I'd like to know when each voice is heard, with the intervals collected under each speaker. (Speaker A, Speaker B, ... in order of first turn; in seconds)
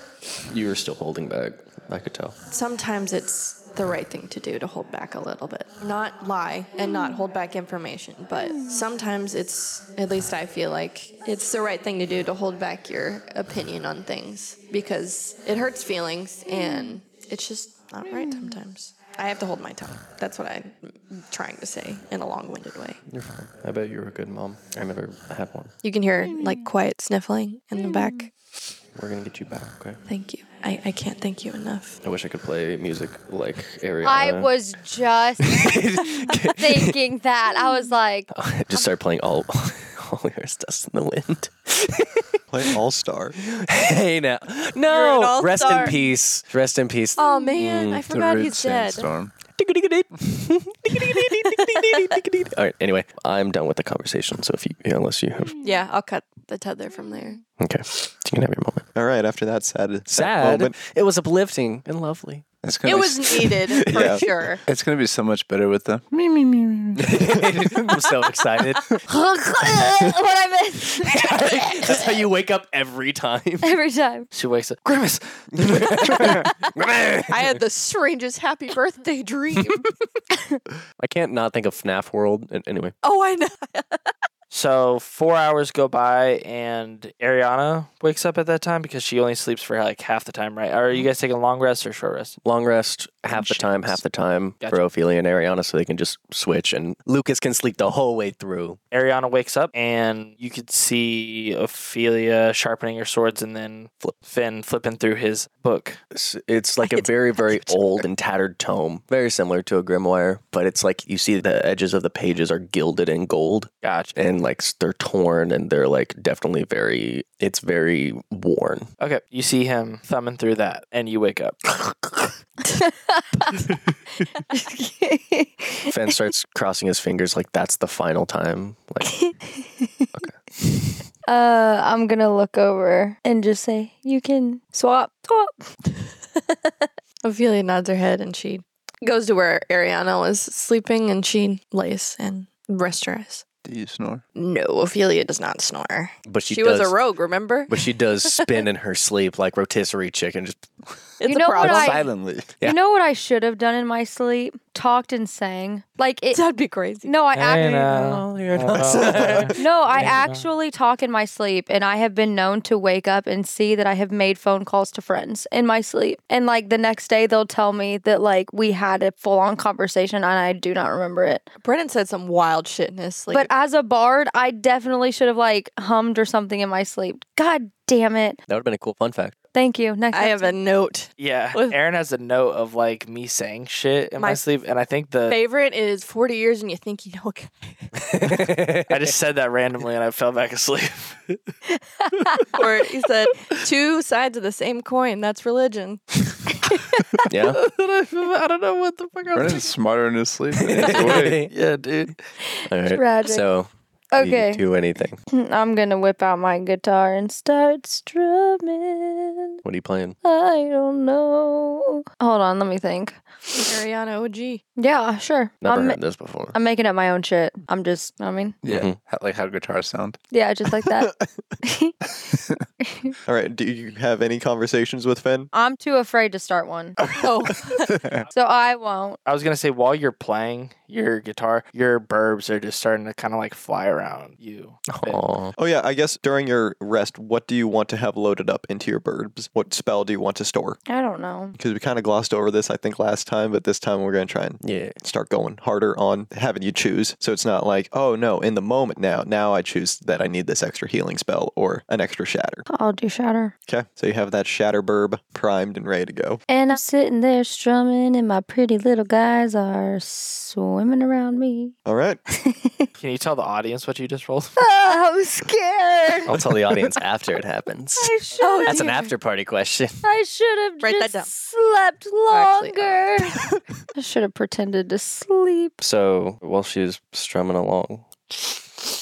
Speaker A: 0.5-2.4, 23.1-25.7, 28.9-30.0, 32.0-34.5, 35.4-36.9, 38.3-42.4, 43.4-48.0, 49.6-55.6, 57.6-58.9, 60.1-62.5, 63.8-64.2, 67.0-69.0, 71.0-73.7, 75.6-77.6, 81.0-82.9, 92.4-98.8, 106.1-118.9, 125.9-129.2, 146.3-147.0, 147.7-150.7, 158.1-160.1, 178.5-179.3, 188.2-188.9, 197.3-197.7, 200.6-205.2, 209.6-210.2, 215.6-216.5, 218.7-219.0, 234.9-235.5, 244.6-245.0, 266.3-268.1, 268.6-270.0, 275.8-278.9
Speaker B: 2.5-23.0, 25.8-28.3, 30.1-32.0, 44.9-46.0, 47.1-49.1, 51.4-51.8, 55.6-57.4, 62.8-64.6, 77.3-79.9, 83.0-84.0, 137.2-143.4, 144.3-148.6, 151.2-152.1, 156.3-157.2, 171.6-173.5, 180.1-181.8, 185.3-187.9, 192.5-196.8, 197.3-198.3, 213.5-214.6, 227.2-227.9, 268.4-269.1, 270.8-271.3, 272.3-273.6
Speaker C: 34.0-35.8, 36.3-38.3, 69.1-72.0, 73.6-74.3, 122.8-123.6, 124.5-125.9, 129.2-130.1, 131.3-135.5, 151.2-152.1, 152.6-156.4, 157.0-158.2, 159.5-171.4, 173.3-178.4, 179.5-180.6, 202.5-203.4, 204.1-204.6, 205.3-209.6, 210.2-213.2, 214.8-216.0, 216.5-218.6, 220.3-221.1, 221.6-221.9, 222.9-223.1, 225.5-227.0, 228.3-229.2, 240.9-241.5, 252.7-253.5, 256.5-261.7, 262.3-262.9, 264.6-266.3, 268.0-269.0, 270.0-273.4, 273.9-275.7
Speaker D: 42.5-43.4, 59.0-60.7, 63.9-64.2, 223.2-225.5, 235.6-240.8, 241.6-252.7, 253.7-256.4, 261.9-262.2
Speaker E: 47.9-49.3, 62.6-63.8, 64.7-68.0, 143.6-144.2, 151.6-152.5, 199.3-201.4, 218.6-220.2, 227.9-228.2
Speaker F: 74.3-76.1, 84.5-92.4, 98.9-106.0, 113.8-114.1, 119.0-121.9, 157.3-160.4, 181.2-185.4, 188.3-191.3, 229.2-235.2, 263.0-264.6